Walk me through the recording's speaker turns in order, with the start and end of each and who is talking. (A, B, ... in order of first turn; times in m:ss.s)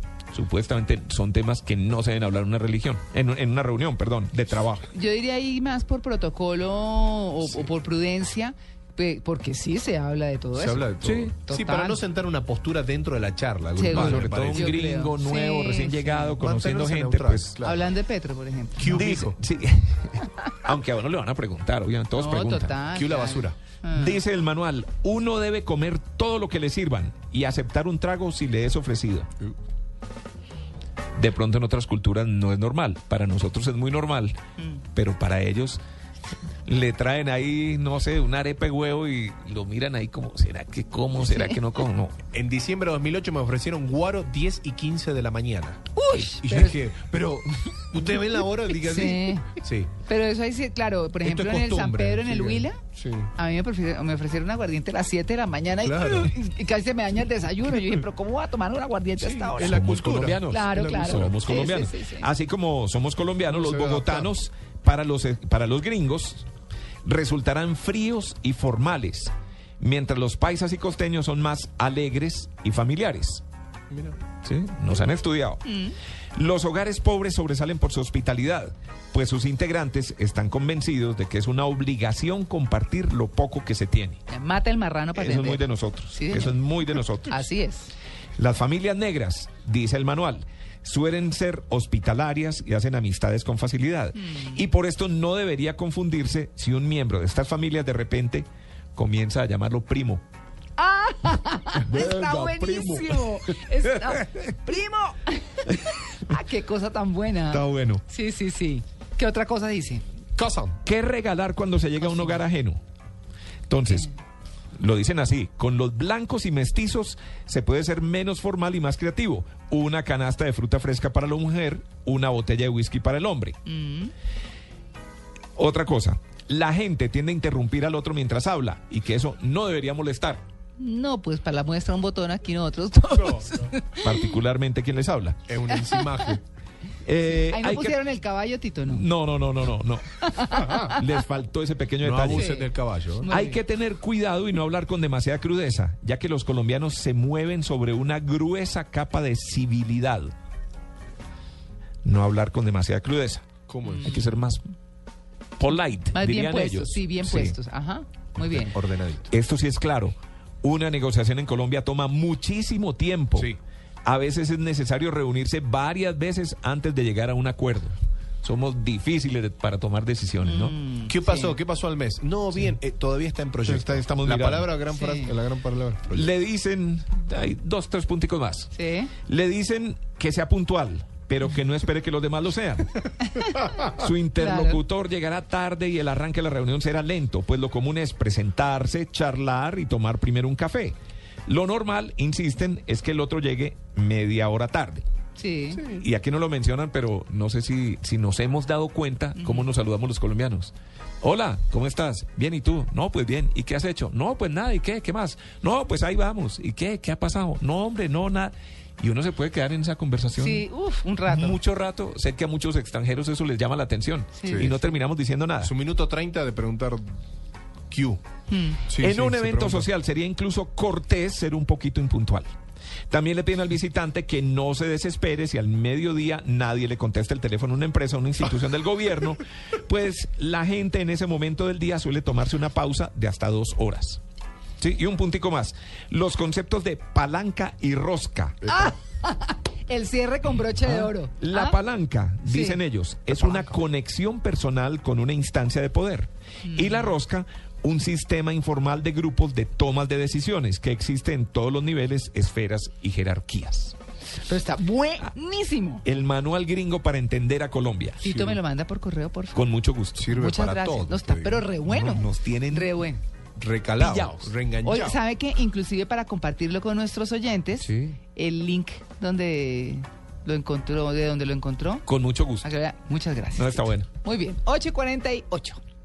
0:00.3-0:04.9 A
0:04.9-0:12.0 B
0:10.5-0:14.8 C
0:11.0-0:11.3 A
0:13.7-0:16.4 B
0:13.9-0:17.6 A
0:16.4-0:17.9 C
0:17.6-0:19.0 B
0:18.8-0:19.4 C
0:18.9-0:22.8 A
0:22.1-0:24.2 B
0:22.9-0:23.6 C
0:23.9-0:29.3 A
0:31.2-0:34.4 A
0:34.9-0:35.8 A
0:36.6-0:42.2 A
0:41.2-0:41.6 B
0:42.3-0:45.8 C
0:45.9-0:46.8 B
0:46.4-0:49.9 C
0:48.8-0:52.8 B
0:51.2-0:53.3 C
0:53.4-0:59.8 B
0:55.8-0:56.3 C
0:59.2-1:01.4 C
0:59.6-1:06.4 A
1:00.4-1:02.3 B
1:03.5-1:04.3 C
1:07.0-1:13.4 A
1:13.9-1:14.2 C
1:14.4-1:15.6 A
1:15.6-1:16.0 B
1:16.4-1:24.2 A
1:24.3-1:25.6 B
1:25.1-1:27.4 A
1:26.1-1:26.6 B
1:27.3-1:27.9 B
1:28.4-1:40.2 A
1:34.2-1:34.6 B
1:40.8-1:50.0 B
1:41.8-1:43.6 A
1:47.5-1:48.0 A
1:50.4-1:50.8 C
1:50.8-1:52.8 A
1:52.1-1:52.4 B
1:53.7-1:54.1 A
1:54.8-2:03.6 A
2:03.6-2:04.1 B
2:05.6-2:10.4 A
2:10.8-2:14.1 B
2:14.0-2:15.4 A
2:15.5-2:16.4 C
2:15.7-2:16.3 B
2:17.0-2:18.0 A
2:17.5-2:19.0 B
2:18.8-2:22.5 A
2:20.2-2:21.1 B
2:22.0-2:23.3 C
2:22.3-2:23.6 B
2:23.3-2:30.3 A
2:32.0-2:33.5 A
2:33.7-2:34.2 C
2:33.8-2:34.3 B
2:34.0-2:34.6 A
2:35.6-2:37.6 A
2:36.1-2:38.8 B
2:38.7-2:39.3 C
2:39.3-2:43.5 A
2:44.0-2:50.7 A
2:50.4-2:51.6 B
2:51.0-2:56.3 C
2:53.6-2:54.7 A
2:54.9-2:55.4 B
2:56.1-2:58.7 A
2:58.7-2:59.1 B
2:59.2-3:03.0 A
3:03.3-3:03.6 B
3:03.8-3:10.9 A
3:04.4-3:04.8 B
3:11.5-3:15.0 A
3:15.4-3:15.9 B
3:15.8-3:30.6 A
3:19.4-3:19.7 B
3:30.4-3:31.6 B
3:31.2-3:35.7 A
3:34.3-3:34.8 B
3:34.4-3:34.7 C
3:35.6-3:37.0 C
3:37.9-3:38.2 C
3:38.5-3:38.8 B
3:38.8-3:39.9 C
3:39.0-3:42.5 A
3:43.1-3:54.2 A
3:54.8-3:58.8 A
3:58.6-4:01.8 B
4:00.8-4:13.9 A
4:02.4-4:02.8 B
4:06.6-4:07.1 B
4:14.4-4:16.0 B
4:16.0-4:18.2 A
4:18.2-4:19.7 B
4:18.3-4:18.6 C
4:19.5-4:20.3 A
4:20.1-4:21.7 C
4:20.3-4:23.2 B
4:21.9-4:22.9 A
4:23.6-4:25.2 C
4:24.0-4:24.5 A
4:24.8-4:32.1 B
4:32.0-4:32.7 A
4:32.6-4:35.8 B
4:33.6-4:34.1 A